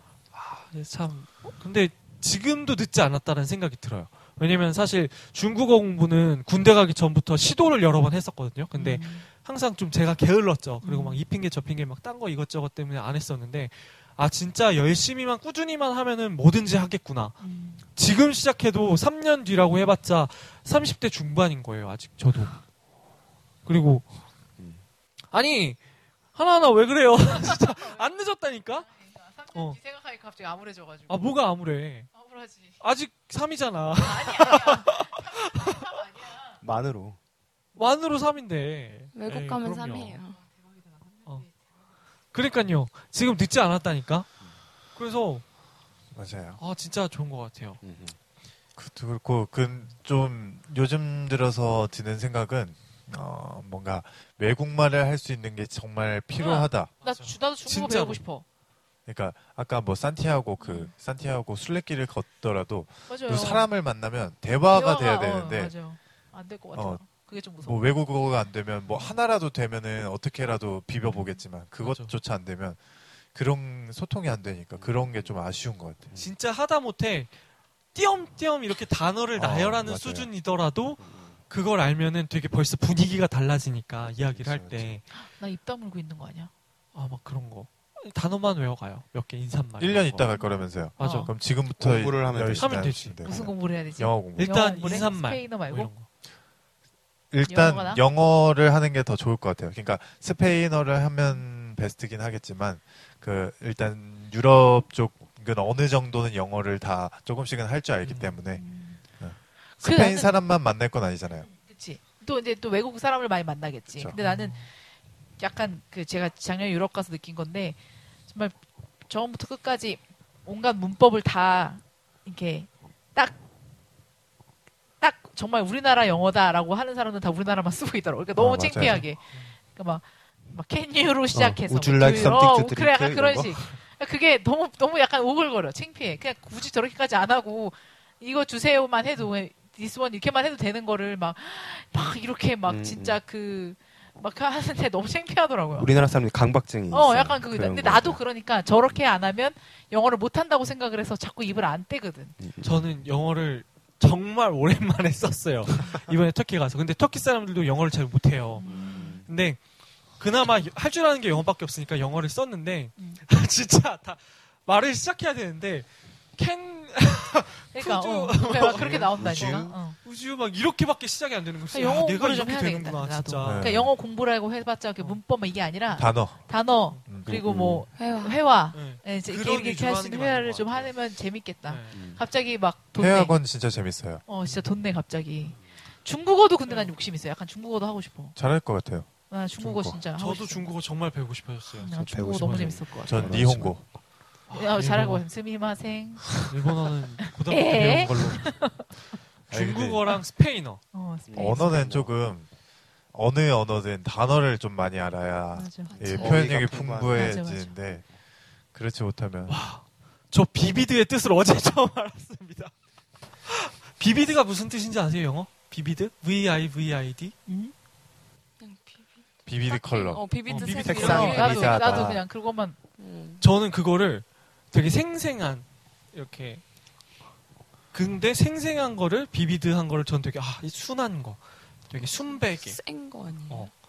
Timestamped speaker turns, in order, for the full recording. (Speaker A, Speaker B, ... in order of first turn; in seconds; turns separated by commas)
Speaker A: 0.3-17.4, Speaker B: 8.8-9.2, Speaker B: 10.8-11.2, Speaker B: 17.4-17.8, Speaker A: 17.9-22.6, Speaker A: 23.6-24.1, Speaker C: 24.6-24.8, Speaker A: 25.3-25.8, Speaker A: 26.3-28.9, Speaker B: 27.3-28.0, Speaker B: 28.8-31.2, Speaker A: 31.1-32.1, Speaker B: 32.1-32.8, Speaker A: 32.8-35.8, Speaker B: 34.0-36.6, Speaker C: 36.6-37.2, Speaker A: 37.8-40.2, Speaker D: 39.1-40.4, Speaker B: 40.4-41.5, Speaker A: 42.3-44.3, Speaker A: 45.0-45.4, Speaker E: 46.1-46.6, Speaker A: 46.6-47.8, Speaker C: 47.8-48.2, Speaker E: 48.8-56.9, Speaker B: 56.4-58.4, Speaker A: 57.0-58.2, Speaker E: 59.1-65.7, Speaker B: 60.6-60.9, Speaker B: 63.1-63.7, Speaker B: 64.7-67.8, Speaker E: 66.7-67.0, Speaker E: 67.6-72.8, Speaker A: 71.8-72.1, Speaker E: 73.3-76.1, Speaker C: 74.7-75.4, Speaker A: 76.2-77.3, Speaker A: 77.9-85.0, Speaker E: 79.3-80.3, Speaker C: 81.0-81.4, Speaker E: 84.4-84.9, Speaker B: 85.1-86.5, Speaker A: 86.9-90.3, Speaker E: 89.8-95.0, Speaker A: 91.0-91.3, Speaker B: 91.0-91.3, Speaker C: 91.7-93.0, Speaker A: 92.5-93.2, Speaker B: 93.2-95.9, Speaker A: 94.4-96.1, Speaker E: 97.3-108.6, Speaker B: 97.5-98.0, Speaker A: 108.0-108.4, Speaker B: 108.5-109.0, Speaker E: 109.2-111.5, Speaker B: 109.8-110.3, Speaker B: 111.5-114.6, Speaker A: 114.2-114.7, Speaker B: 115.4-117.8, Speaker B: 118.3-118.6, Speaker B: 119.1-123.4, Speaker B: 125.0-145.9, Speaker E: 128.4-129.0, Speaker A: 128.8-129.5, Speaker C: 131.3-133.6, Speaker C: 142.7-143.2, Speaker C: 145.8-148.2, Speaker B: 146.9-152.3, Speaker C: 152.4-152.8, Speaker A: 152.6-159.6, Speaker B: 158.6-159.2, Speaker C: 158.6-159.3, Speaker A: 160.2-173.7, Speaker B: 167.7-170.0, Speaker C: 168.7-169.8, Speaker B: 171.7-183.3, Speaker E: 173.4-173.9, Speaker E: 175.9-176.4, Speaker C: 177.3-177.9, Speaker D: 177.9-178.5, Speaker A: 178.7-180.9, Speaker A: 181.6-182.0, Speaker C: 181.9-182.2, Speaker E: 182.9-184.2, Speaker B: 184.3-188.3, Speaker A: 186.7-186.9, Speaker E: 188.3-190.0, Speaker B: 189.3-190.7, Speaker A: 190.2-192.8, Speaker B: 191.8-193.4, Speaker C: 191.9-193.8, Speaker E: 193.0-193.8, Speaker A: 194.5-195.2, Speaker B: 194.5-196.5, Speaker A: 196.4-198.6, Speaker B: 197.5-198.9, Speaker A: 199.5-200.8, Speaker E: 199.5-200.0, Speaker B: 200.9-201.8, Speaker C: 201.3-202.1, Speaker E: 201.3-202.5, Speaker E: 203.1-208.1, Speaker B: 205.5-206.0, Speaker D: 205.9-206.4, Speaker C: 206.1-207.4, Speaker B: 207.1-207.7, Speaker E: 208.7-209.6, Speaker A: 209.5-212.7, Speaker A: 213.4-217.3, Speaker B: 217.5-217.7, Speaker D: 218.6-222.1, Speaker E: 219.4-220.3, Speaker A: 220.5-221.5, Speaker C: 220.5-222.2, Speaker B: 220.7-222.8, Speaker D: 223.0-223.4, Speaker A: 223.4-226.6, Speaker A: 227.9-232.8, Speaker D: 232.0-233.7